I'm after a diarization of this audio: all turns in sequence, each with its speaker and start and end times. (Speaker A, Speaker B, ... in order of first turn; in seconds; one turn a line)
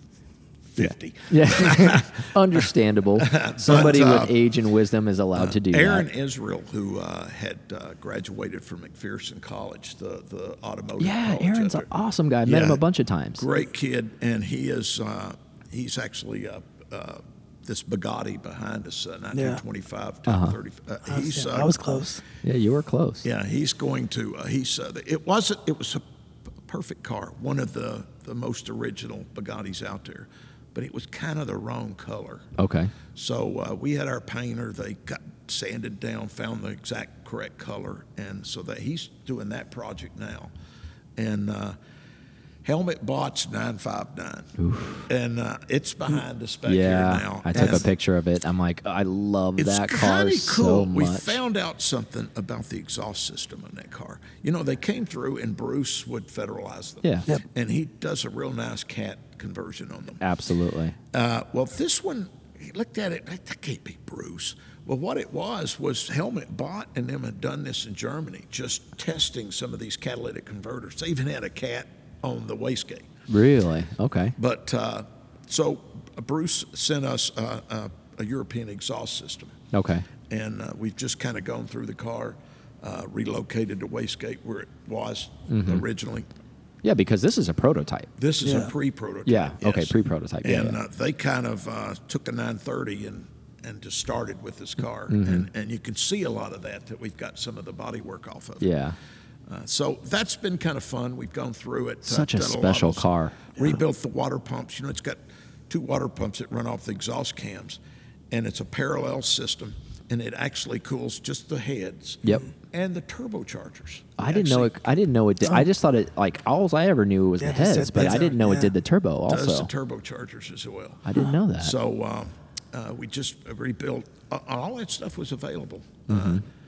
Speaker A: 0.7-4.4
Speaker B: 0.8-6.1
Speaker A: 5.3-11.9
Speaker B: 11.0-13.4
Speaker A: 12.4-12.8
Speaker A: 13.4-21.8
Speaker C: 19.3-19.6
Speaker B: 20.3-20.6
Speaker C: 21.1-22.2
Speaker B: 22.4-23.3
Speaker A: 23.2-26.0
Speaker A: 26.6-32.5
Speaker B: 32.6-32.9
Speaker A: 33.1-40.5
Speaker A: 41.2-41.8
Speaker A: 42.6-44.5
Speaker B: 44.6-45.1
Speaker A: 45.1-47.9
Speaker B: 46.6-51.4
Speaker A: 49.6-60.2
Speaker B: 60.2-61.0
Speaker A: 61.1-73.1
Speaker B: 73.3-74.4
Speaker A: 74.4-79.6
Speaker B: 79.7-80.1
Speaker A: 80.3-86.3
Speaker B: 85.5-85.8
Speaker B: 86.8-88.1
Speaker A: 88.2-98.7
Speaker C: 88.4-88.7
Speaker B: 89.3-90.8
Speaker B: 95.1-95.5
Speaker B: 98.6-99.0
Speaker A: 99.5-114.7
Speaker B: 102.0-103.5
Speaker B: 114.2-119.7
Speaker C: 117.4-118.7
Speaker A: 119.3-126.4
Speaker B: 121.0-121.8
Speaker B: 126.1-126.4